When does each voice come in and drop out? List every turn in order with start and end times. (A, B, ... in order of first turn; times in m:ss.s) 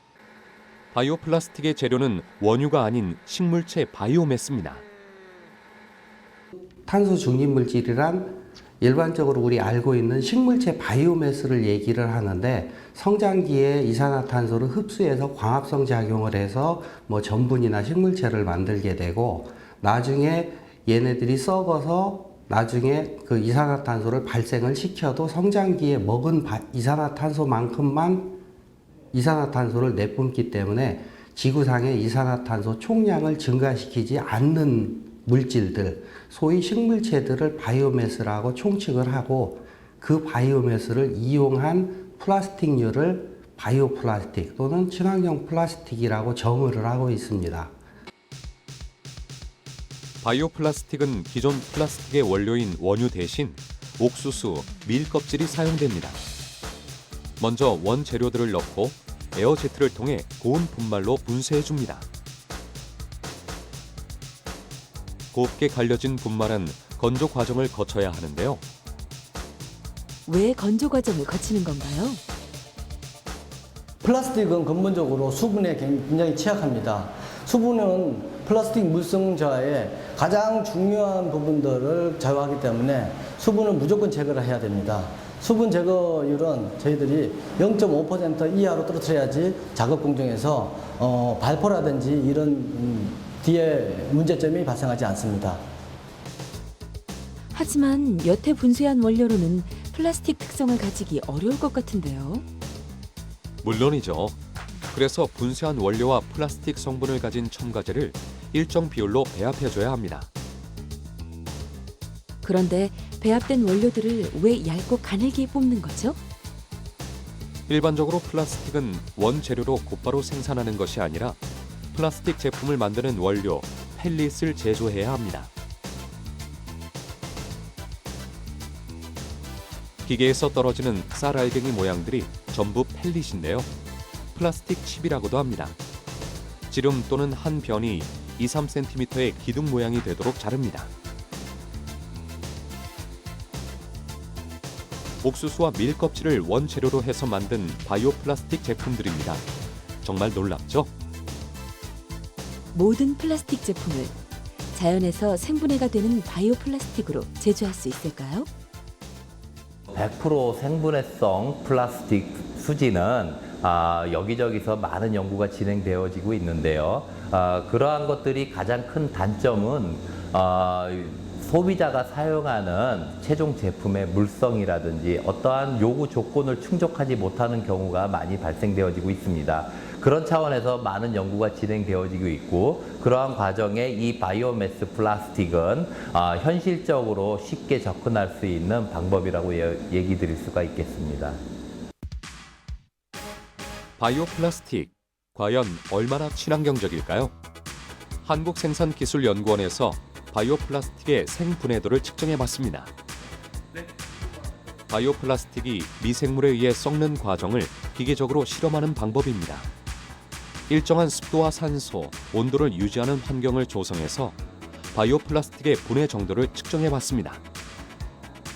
0:00.9-0:04.8 A
0:06.8-0:28.4 B
0:29.1-0:47.7 B
0:50.2-0:56.2 A
0:57.4-1:02.0 A
1:05.3-1:08.6 A
1:10.2-1:12.2 C
1:14.0-1:35.6 D
1:37.5-1:42.4 C
1:43.6-1:44.4 A
1:44.9-1:50.3 A
1:52.4-1:56.2 C
1:57.7-2:01.4 A
2:01.9-2:05.5 A
2:10.0-2:13.7 A
2:14.3-2:15.8 A
2:16.7-2:20.9 A
2:25.2-2:29.4 A
2:30.0-2:30.9 A
2:32.7-2:34.1 C
2:34.7-2:38.5 C
2:39.9-3:11.4 E
3:14.0-3:17.3 A
3:18.2-3:22.9 A
3:24.9-3:29.7 A
3:30.7-3:34.4 A
3:34.9-3:37.4 A